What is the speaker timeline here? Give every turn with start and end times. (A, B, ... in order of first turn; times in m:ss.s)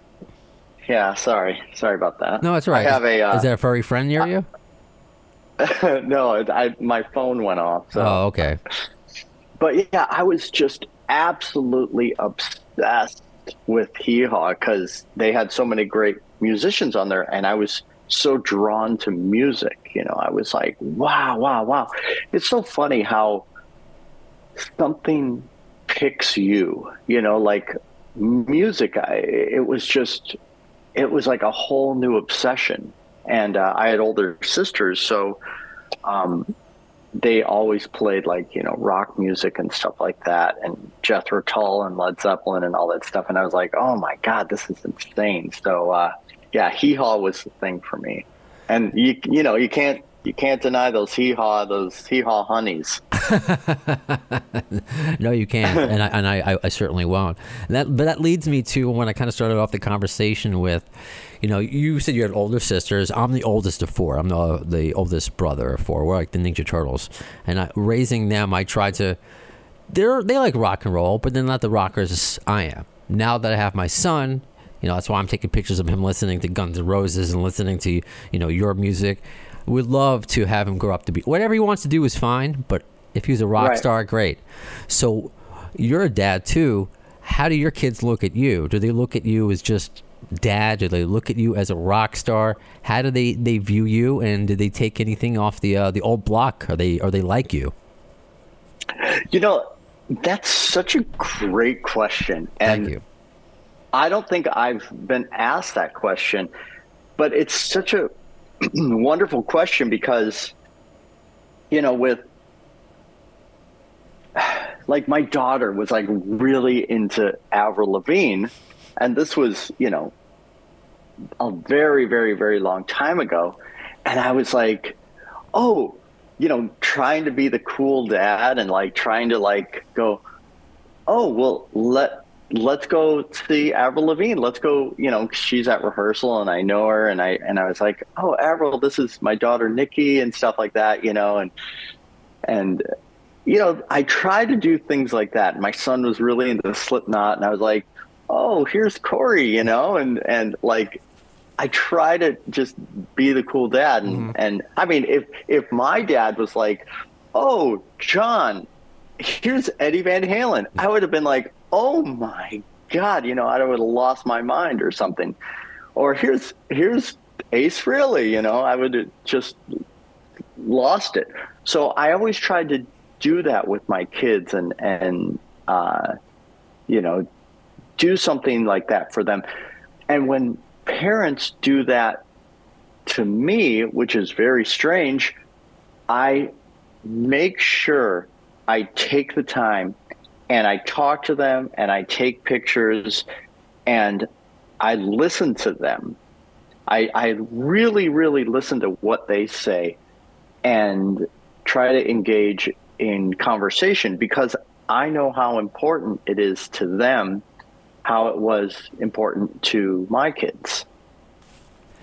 0:00.9-0:03.5 A
0:02.4-0:04.5 B
0:05.6-0:08.2 A
0:08.0-0:08.6 B
0:09.6-0:23.5 A
0:24.6-0:30.4 A
0:31.0-0:35.4 A
0:36.0-0:36.5 A
0:37.2-0:53.0 A
0:53.2-1:00.9 B
1:01.4-1:09.2 B
1:09.9-1:37.7 B
1:23.6-1:23.8 A
1:39.0-1:42.9 A
1:42.6-1:43.0 B
1:43.9-1:46.5 A
1:47.2-1:48.1 A
1:48.6-1:50.5 A
1:51.7-1:52.2 A
1:54.4-2:00.1 A
2:01.4-2:05.0 A
2:05.5-2:10.2 A
2:11.1-2:21.5 A
2:22.5-2:22.8 A
2:23.5-2:31.0 A
2:31.6-2:38.7 A
2:39.2-2:45.4 A
2:46.0-2:49.6 A
2:50.6-2:56.2 A
2:56.9-2:57.3 A
2:58.0-2:59.4 A
3:00.1-3:02.2 A
3:03.1-3:05.4 A
3:06.1-3:06.5 A
3:07.0-3:10.0 A
3:10.5-3:13.3 A
3:13.9-3:14.3 A
3:14.8-3:16.2 A
3:16.9-3:20.0 A
3:20.6-3:27.4 A
3:28.0-3:30.9 A